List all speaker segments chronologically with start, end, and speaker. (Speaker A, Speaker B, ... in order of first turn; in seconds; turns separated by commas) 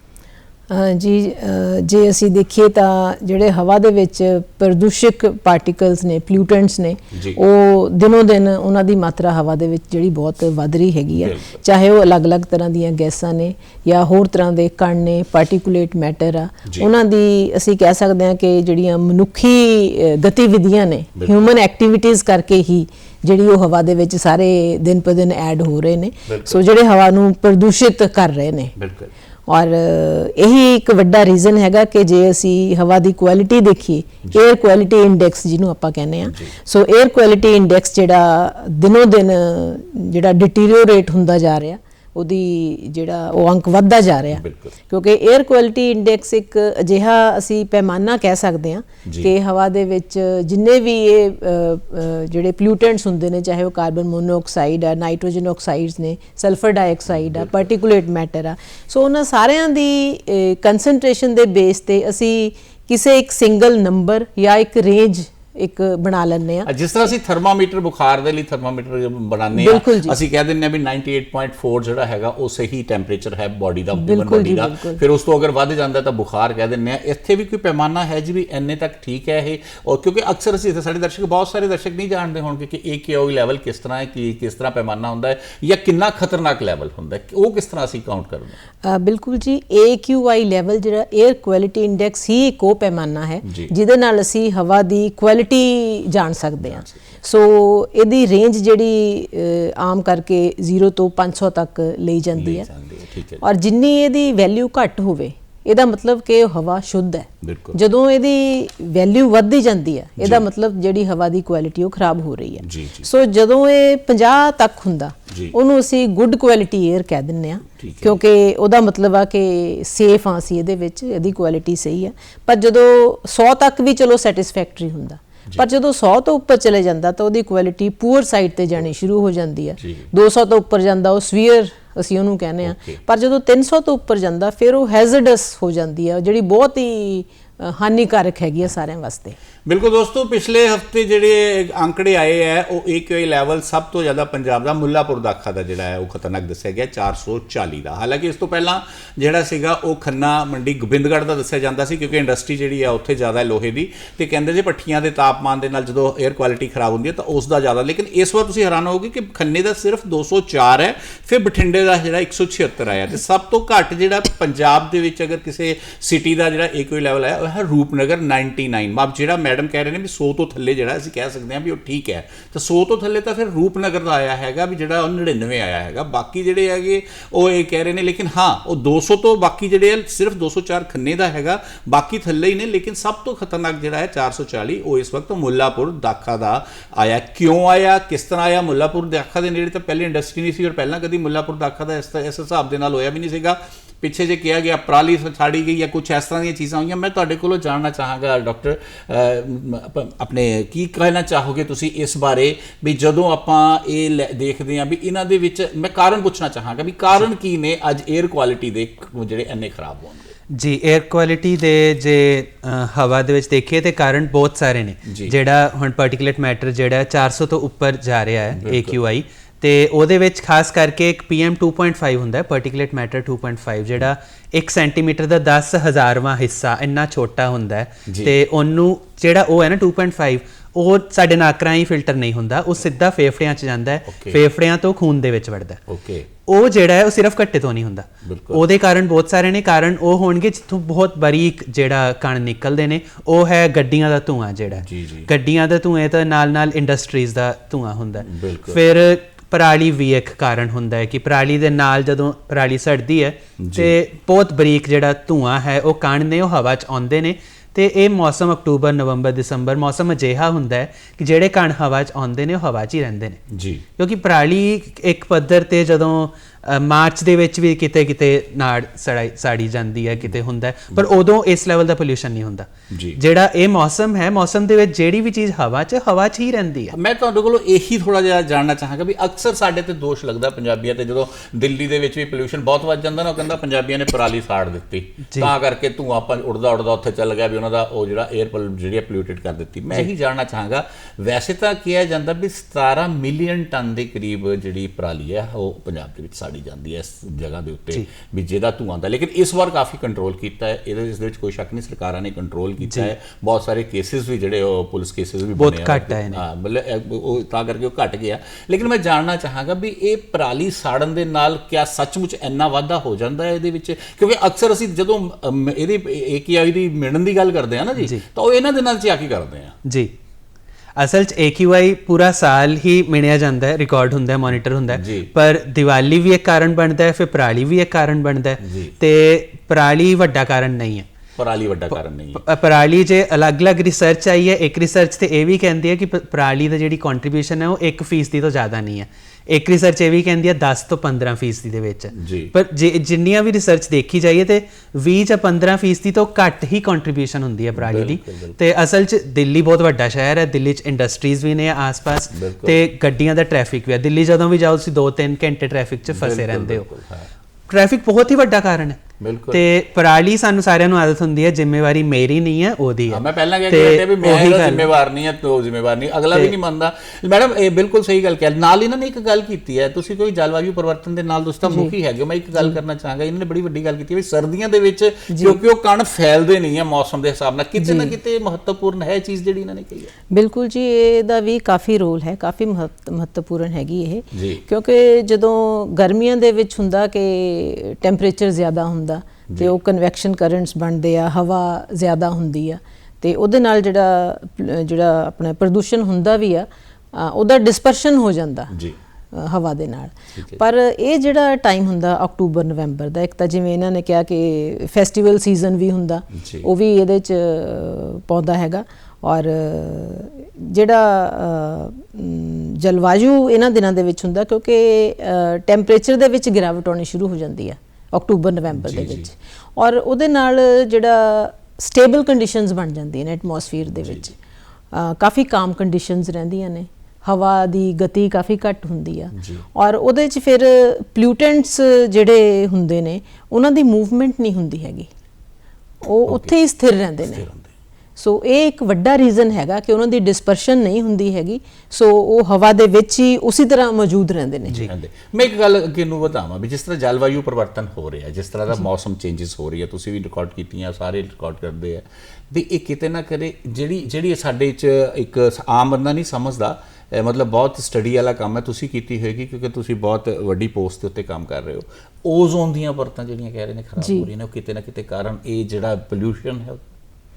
Speaker A: 0.7-28.7, Speaker B: 7.1-7.4, Speaker B: 11.1-11.6, Speaker B: 26.3-26.6, Speaker B: 28.8-29.1, Speaker A: 29.5-66.7, Speaker B: 36.2-36.5, Speaker B: 44.3-44.7, Speaker B: 49.0-49.3, Speaker B: 66.6-88.6, Speaker A: 69.5-70.2, Speaker A: 73.9-75.0, Speaker A: 88.8-102.7, Speaker B: 93.4-93.7, Speaker B: 96.6-97.0, Speaker B: 102.3-103.4, Speaker A: 103.4-139.4, Speaker B: 107.4-107.8, Speaker B: 110.2-110.5, Speaker B: 112.6-113.0, Speaker B: 115.3-115.5, Speaker B: 117.8-118.2, Speaker B: 129.8-130.1, Speaker B: 132.6-133.0, Speaker B: 139.7-210.3, Speaker C: 210.5-235.8, Speaker B: 215.1-215.3, Speaker B: 218.6-219.0, Speaker B: 228.1-228.3, Speaker B: 234.1-234.4, Speaker B: 235.9-236.3, Speaker C: 236.5-263.4, Speaker B: 238.2-238.6, Speaker B: 244.8-245.3, Speaker B: 248.2-248.8, Speaker B: 253.6-254.0, Speaker B: 263.5-263.8, Speaker C: 264.0-276.9, Speaker B: 272.9-273.2, Speaker B: 276.9-319.7, Speaker C: 302.8-303.1, Speaker C: 305.6-306.4, Speaker C: 319.8-320.1, Speaker C: 320.9-331.1, Speaker B: 324.9-325.3, Speaker B: 328.6-328.9, Speaker B: 331.4-332.4, Speaker C: 332.4-356.9, Speaker B: 342.1-342.5, Speaker B: 347.8-348.5, Speaker B: 352.3-352.8, Speaker B: 356.1-357.3, Speaker C: 357.7-359.0, Speaker B: 359.2-359.6, Speaker C: 359.5-364.9, Speaker B: 363.1-380.1, Speaker A: 371.6-371.9, Speaker A: 375.3-375.6, Speaker A: 377.8-378.1, Speaker A: 380.3-398.7, Speaker B: 384.3-384.6, Speaker A: 399.3-424.4, Speaker B: 406.3-406.6, Speaker B: 418.8-419.2, Speaker A: 424.9-435.1, Speaker B: 429.3-429.6, Speaker A: 436.0-437.4, Speaker B: 436.3-436.5, Speaker B: 437.2-437.7, Speaker A: 438.2-444.9, Speaker B: 444.8-466.8, Speaker A: 464.0-464.3